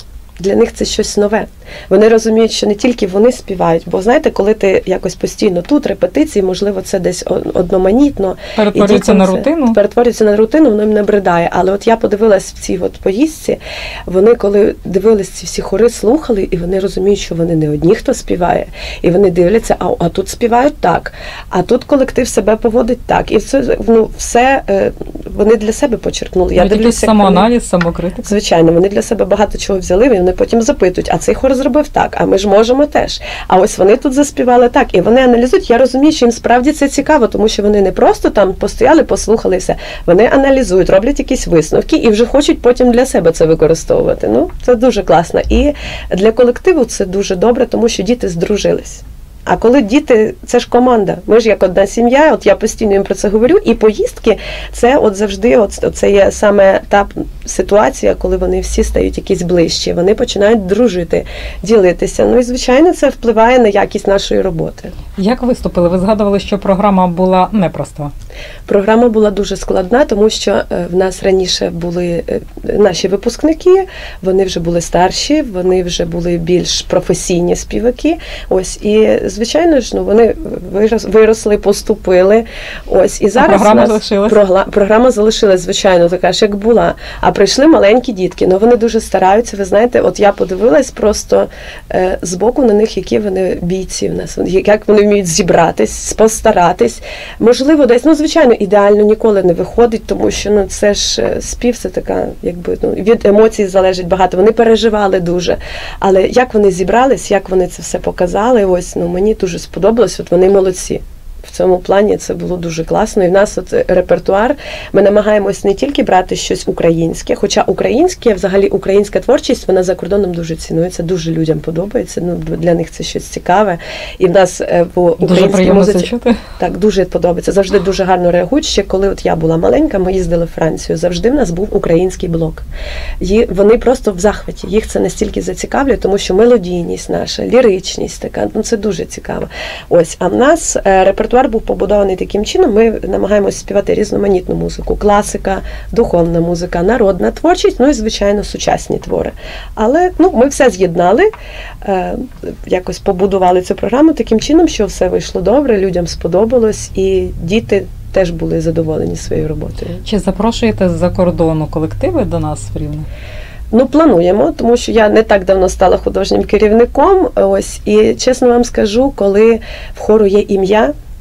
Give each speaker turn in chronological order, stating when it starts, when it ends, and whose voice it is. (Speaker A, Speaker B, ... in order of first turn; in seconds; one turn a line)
Speaker A: 0.4-27.5
Speaker B: 8.6-9.8
Speaker B: 26.6-28.3
Speaker A: 28.2-64.9
Speaker B: 65.2-68.1
Speaker A: 68.7-132.7
Speaker B: 83.4-84.4
Speaker B: 125.2-126.4
Speaker A: 133.2-151.3
Speaker A: 151.8-160.0
Speaker B: 160.0-163.1
Speaker A: 163.7-170.9